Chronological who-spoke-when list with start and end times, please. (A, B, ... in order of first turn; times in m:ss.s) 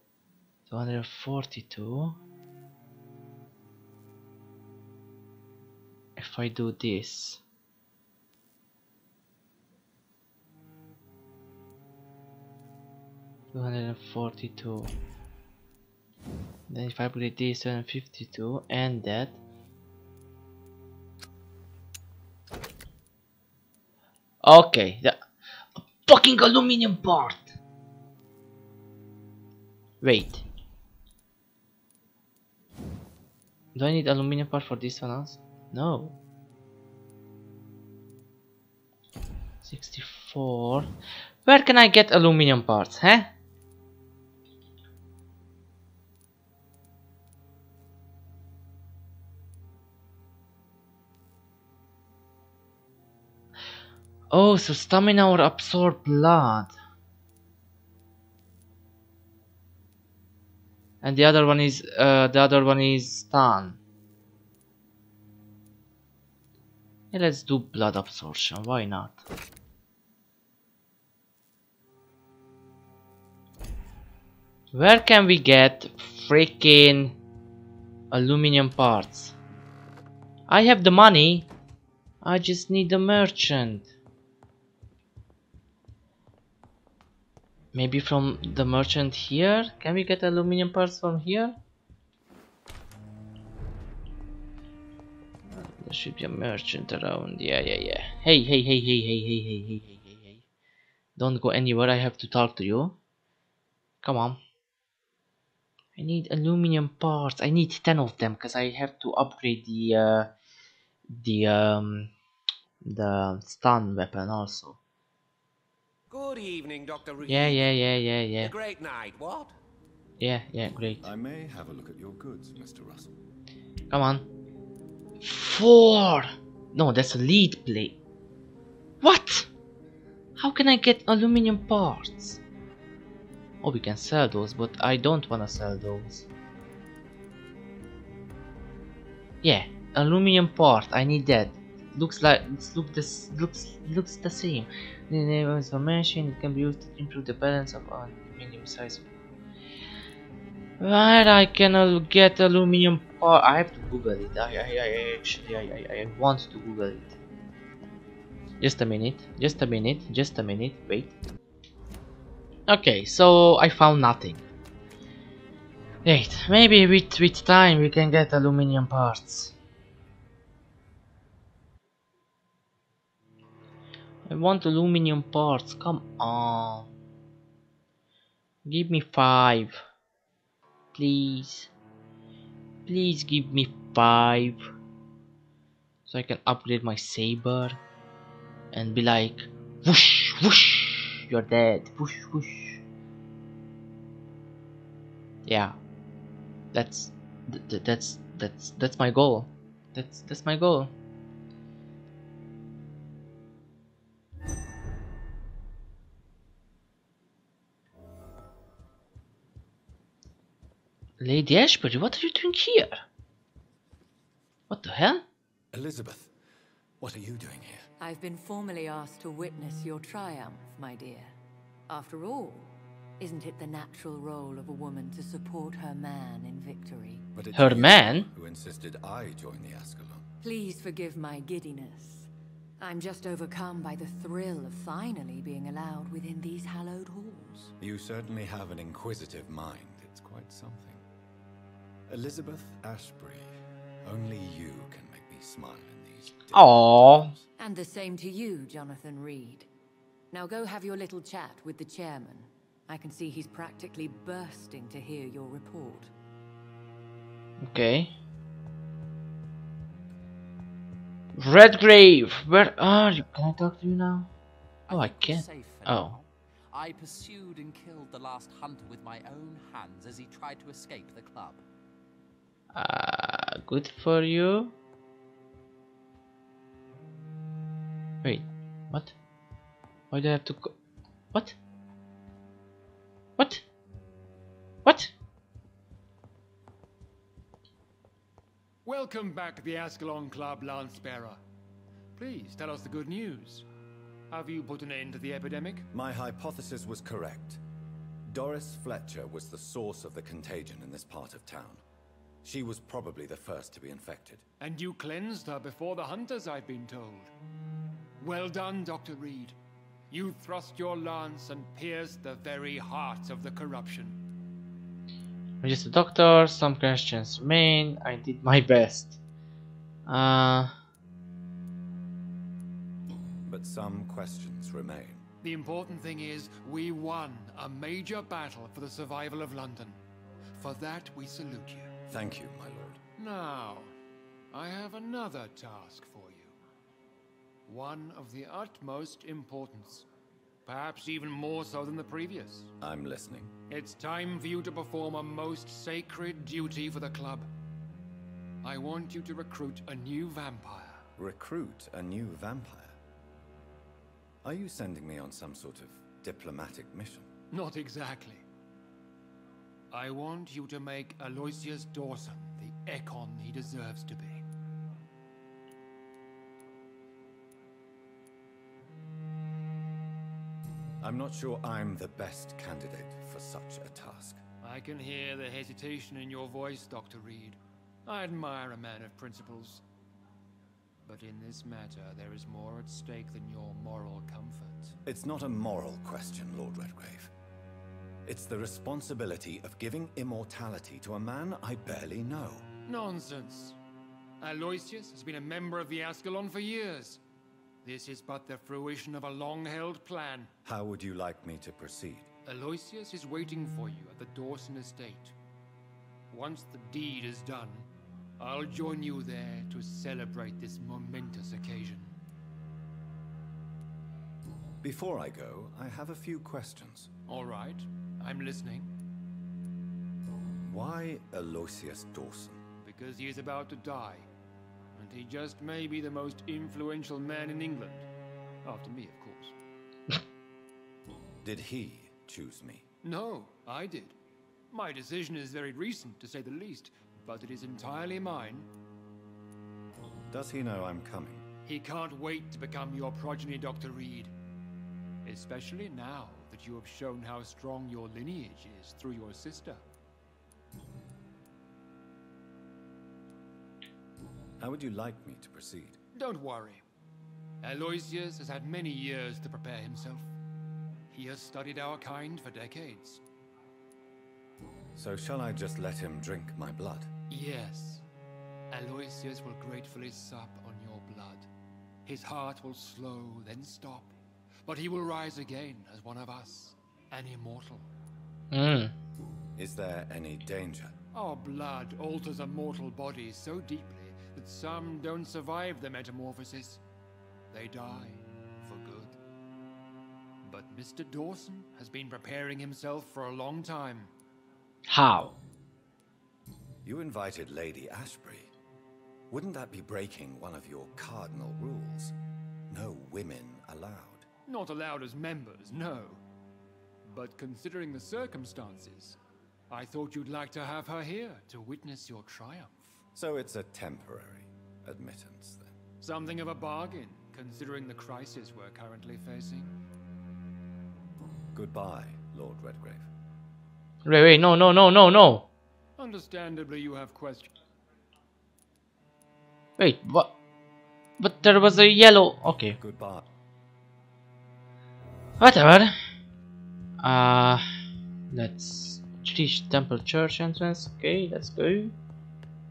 0:00.7-0:02.2 A
0:06.2-0:07.4 A
0:13.5-0:14.9 A
0:16.7-0:19.4 A
0:24.4-0:25.2 A
0:25.8-0:27.5 A
0:30.0-0:30.4 A
0:33.8-0:36.2 A
0:39.6-0:40.9 A
0:41.4-0:43.3 A
0:54.3-0:56.7 A
1:01.0-1:03.8 A
1:07.1-1:09.2 A
1:14.7-1:17.1 A
1:18.1-1:19.4 A
1:20.5-1:21.5 A
1:22.2-1:23.9 A
1:27.7-1:31.6 A
1:35.5-1:40.4 A
1:41.2-1:43.0 A
1:44.0-1:44.4 A
1:46.0-1:50.3 A
1:51.1-1:52.1 A
1:52.8-1:54.8 A
1:56.1-1:57.8 B
1:57.3-1:58.5 A
1:58.4-1:59.5 B
2:00.2-2:01.0 A
2:01.0-2:03.2 C
2:03.9-2:04.3 A
2:05.2-2:08.0 A
2:09.0-2:09.5 A
2:10.4-2:12.4 A
2:13.6-2:16.3 A
2:19.4-2:29.0 A
2:30.8-2:37.2 A
2:38.6-2:41.2 A
2:42.7-2:44.4 A
2:46.0-2:49.5 A
2:54.3-2:56.9 A
2:58.6-2:59.8 A
3:00.9-3:01.7 A
3:02.9-3:04.6 A
3:06.1-3:07.8 A
3:08.7-3:12.8 A
3:15.5-3:15.8 A
3:16.7-3:20.9 A
3:31.2-3:33.0 A
3:34.7-3:35.2 A
3:35.7-3:36.3 C
3:37.0-3:37.9 C
3:38.0-3:41.4 D
3:41.9-3:47.3 D
3:47.4-3:50.3 C
3:47.6-3:48.3 A
3:50.4-3:57.7 D
3:57.8-4:01.0 C
4:02.1-4:07.4 C
4:06.5-4:07.3 A
4:07.6-4:09.7 D
4:10.3-4:16.1 D
4:17.6-4:18.1 A
4:21.4-4:24.3 A
4:24.9-4:31.6 E
4:24.9-4:26.1 A
4:32.7-4:34.7 A
4:38.2-4:39.2 A
4:40.1-4:40.8 A
4:43.4-4:43.6 A
4:44.8-4:45.1 A
4:48.8-4:51.4 F
4:52.2-4:53.7 F
4:54.3-4:55.9 F
4:55.9-4:57.6 C
4:58.3-5:01.8 C
5:02.4-5:04.5 C
5:04.6-5:07.3 F
5:08.2-5:09.6 F
5:10.1-5:14.2 F
5:15.6-5:19.2 A
5:20.1-5:20.7 A
5:23.4-5:25.2 C
5:25.4-5:30.0 F
5:30.6-5:31.9 F
5:32.1-5:33.0 C
5:33.2-5:34.0 F
5:34.5-5:36.6 F
5:37.7-5:40.1 F
5:40.6-5:42.7 F
5:42.8-5:43.5 C
5:43.7-5:47.5 F
5:48.6-5:51.0 F
5:51.2-5:53.0 C
5:54.4-5:57.3 C
5:57.5-5:58.4 F
5:59.9-6:04.4 F
6:11.0-6:14.4 C
6:14.6-6:19.8 F
6:21.0-6:25.0 F
6:25.0-6:27.3 C
6:28.3-6:32.7 C
6:32.9-6:33.8 F
6:34.4-6:37.2 F
6:37.8-6:40.5 F
6:40.6-6:42.3 C
6:42.4-6:45.3 F
6:46.3-6:47.9 F
6:48.4-6:52.2 F
6:54.8-6:57.1 C
6:57.3-6:58.9 F
7:00.7-7:02.6 C
7:02.8-7:04.3 F
7:05.0-7:08.1 F
7:08.6-7:09.6 F
7:11.4-7:12.9 C
7:13.0-7:14.2 F
7:14.7-7:18.7 F
7:20.3-7:21.4 C
7:21.6-7:24.3 F
7:25.2-7:29.8 F
7:34.6-7:36.0 C
7:36.2-7:36.8 F
7:37.6-7:40.3 F
7:41.1-7:43.2 F
7:45.0-7:47.1 C
7:47.3-7:48.0 F
7:48.7-7:51.5 F
7:52.1-7:54.1 F
7:54.6-7:57.9 F
7:58.5-7:58.9 A
7:59.6-8:01.0 C
8:01.1-8:06.8 F
8:07.5-8:09.2 F
8:10.4-8:14.1 F
8:14.9-8:15.4 A
8:16.8-8:18.5 C
8:19.3-8:22.2 C
8:22.7-8:24.3 C
8:24.5-8:26.2 F
8:27.0-8:29.2 F
8:29.7-8:33.0 F
8:33.2-8:35.8 C
8:36.0-8:39.7 F
8:41.5-8:43.1 C
8:44.1-8:45.5 A
8:46.0-8:47.6 F
8:49.8-8:50.4 A
8:51.2-8:52.8 A
8:52.8-8:53.3 C
8:55.4-8:55.9 A
8:57.0-8:57.6 A
8:58.3-9:01.9 A